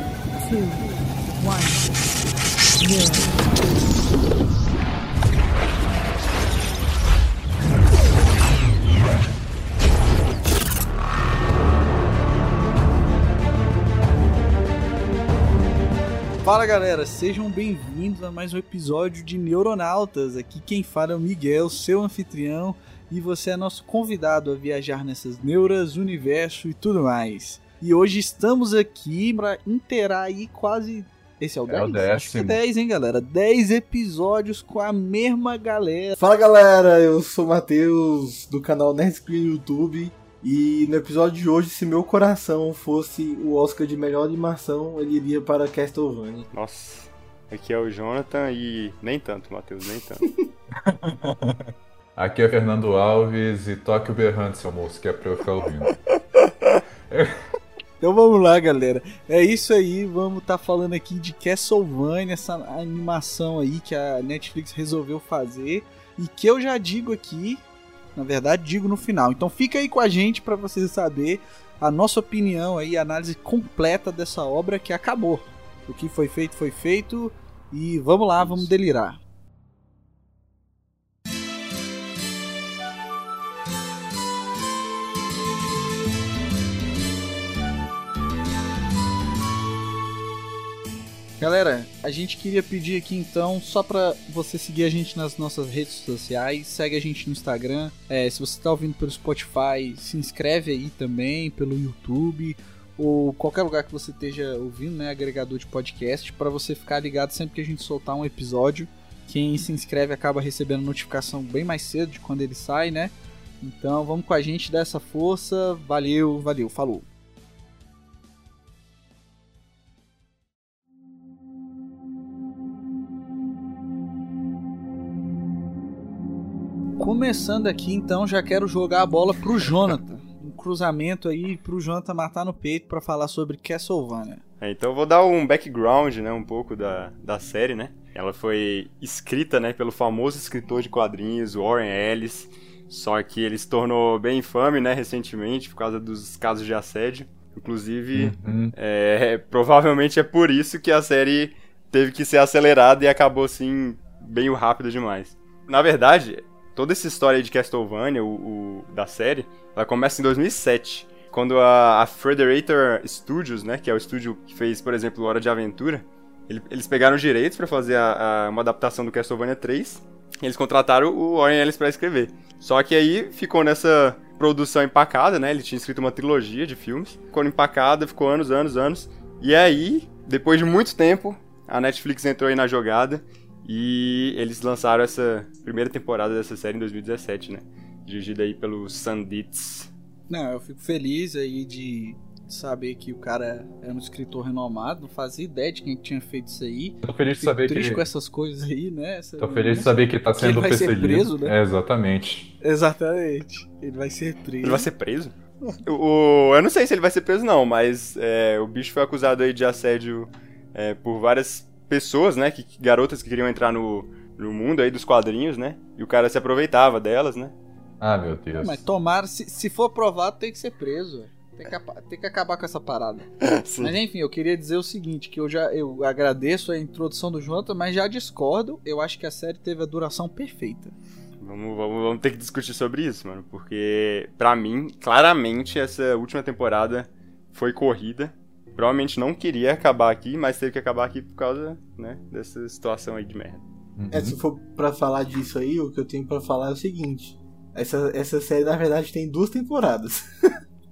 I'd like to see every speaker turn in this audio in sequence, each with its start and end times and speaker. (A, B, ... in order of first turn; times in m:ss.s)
0:00.4-0:01.9 A
0:02.8-0:03.4 A
0:16.4-0:36.2 B
0:31.7-0:32.6 C
0:36.2-0:46.5 D
0:46.5-0:50.3 E
0:50.8-0:56.0 C
0:57.1-0:57.4 C
0:58.0-1:07.6 B
1:08.1-1:19.2 B
1:31.4-1:57.0 B
2:07.0-2:14.4 B
2:14.6-3:09.9 E
2:28.2-2:28.7 C
3:10.3-3:21.6 B
3:17.0-3:18.0 C
3:19.4-3:22.5 C
3:22.6-3:24.9 B
3:24.6-3:25.3 E
3:25.9-3:37.5 E
3:38.0-3:38.8 C
3:38.6-3:51.0 B
3:43.4-3:44.0 E
3:51.4-4:03.6 E
4:04.0-4:04.4 C
4:04.1-4:10.6 D